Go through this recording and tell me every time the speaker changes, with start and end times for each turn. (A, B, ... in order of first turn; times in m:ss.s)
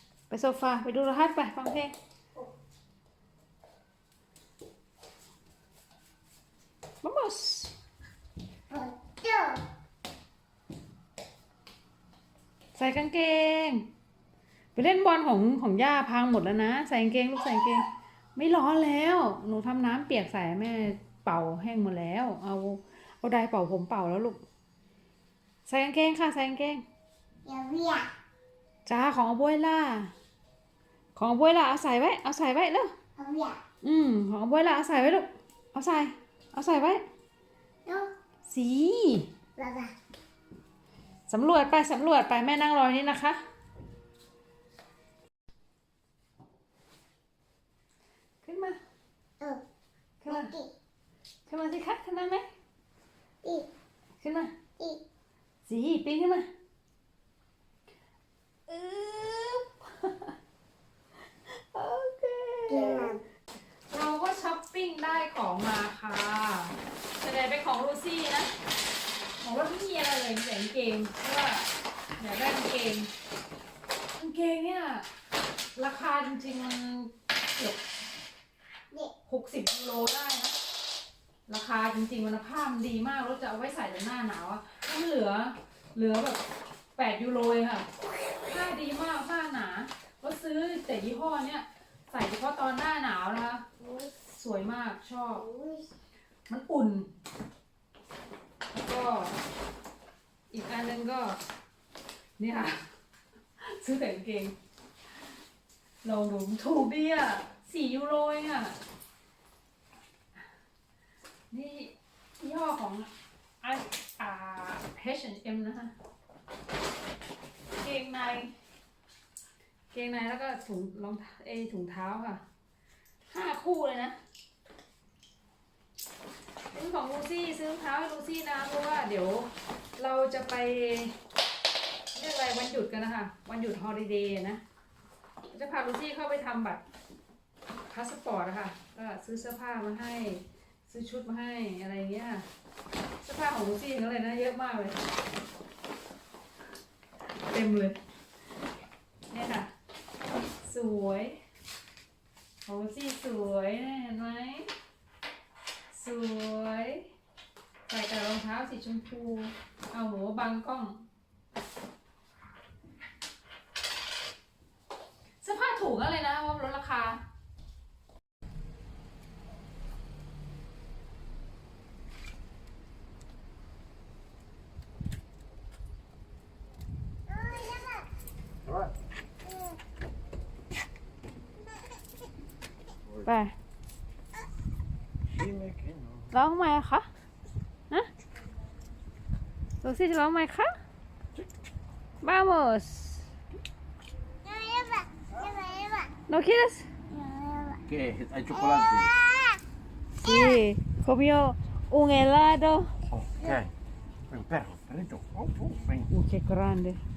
0:00.3-0:01.9 A
0:07.0-0:07.7 A
0:08.7-0:09.6 B
0:12.8-0:13.8 A
0:14.8-0:24.4 A
0:25.7-0:26.8 A
0:27.4-0:28.1 B
0:28.8-0:30.1 A
0:31.2-0:32.9 A
0:33.2-0:33.6 B
0:33.8-0:37.0 A
0:38.5-0:39.3 A
0:39.6-0:39.9 B
0:41.3-0:43.4 A
0:48.4-0:48.8 A
0:50.2-0:50.5 A
0:50.3-0:50.7 B
0:51.5-0:52.4 A
0:53.4-0:53.7 B
0:54.2-0:54.5 A
0:55.6-0:56.5 A
0:58.7-1:00.4 A
1:01.4-1:03.1 A
1:02.7-1:03.2 B
1:03.9-1:08.5 A
1:09.4-1:11.7 A
1:12.2-1:13.1 A
1:14.1-1:15.0 A
1:15.8-1:17.8 A
1:19.2-1:20.6 A
1:21.5-1:26.4 A
1:27.0-1:27.8 A
1:28.4-1:33.6 A
1:33.8-1:34.1 B
1:34.2-1:35.4 A
1:35.3-1:35.9 B
1:36.5-1:37.1 A
1:38.7-1:39.4 A
1:40.5-1:41.4 A
1:42.4-1:42.8 A
1:43.6-1:44.5 A
1:46.0-1:48.8 A
1:51.5-1:53.1 A
1:53.6-1:55.9 A
1:57.8-1:58.5 A
1:59.9-2:02.4 A
2:03.3-2:04.2 A
2:06.7-2:11.2 A
2:12.1-2:14.6 A
2:15.5-2:16.8 A
2:17.9-2:22.4 A
2:23.2-2:25.0 A
2:27.5-2:28.0 A
2:29.3-2:29.7 A
2:30.6-2:31.4 A
2:32.6-2:34.7 A
2:35.9-2:37.1 A
2:37.9-2:41.0 A
2:45.4-2:47.2 A
2:57.3-2:58.1 B
3:03.2-3:03.6 A
3:05.4-3:06.2 C
3:06.3-3:07.1 A
3:09.8-3:10.7 A
3:12.2-3:13.3 A
3:14.4-3:16.1 B
3:16.3-3:16.9 A
3:17.1-3:17.8 B
3:17.9-3:19.1 C
3:18.8-3:19.6 B
3:20.2-3:22.9 A
3:20.2-3:20.6 B
3:23.2-3:23.7 C
3:24.3-3:26.1 C
3:26.1-3:27.0 A